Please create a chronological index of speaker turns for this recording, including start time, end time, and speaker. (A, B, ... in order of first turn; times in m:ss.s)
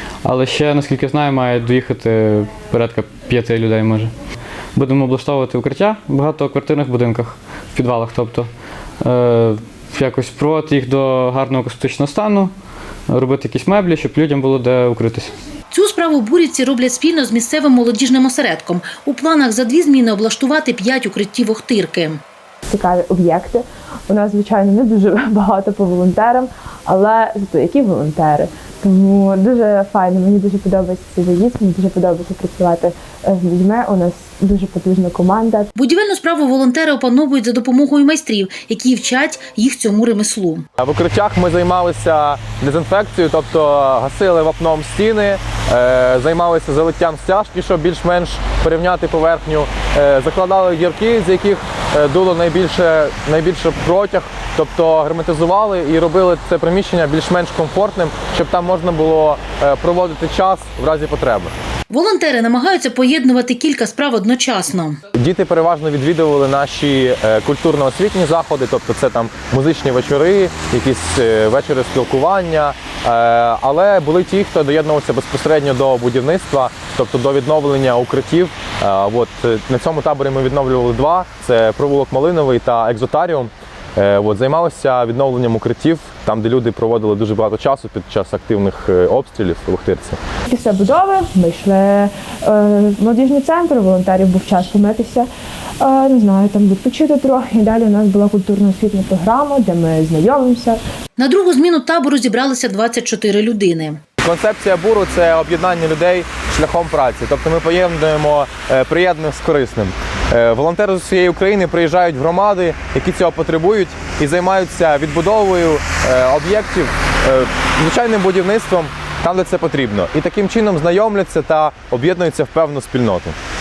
0:00.2-0:04.1 A
0:04.8-0:08.5 A
0:09.0-0:12.5 A
0:13.1-0:15.3 A
0:15.7-0:22.2 B
0:22.7-0:35.7 C
0:35.8-0:40.6 B
0:40.8-1:01.5 D
1:01.9-1:05.0 B
1:05.1-1:30.2 D
1:30.5-1:35.3 C
1:35.8-1:40.8 C
1:41.2-1:44.0 B
1:44.2-2:03.4 D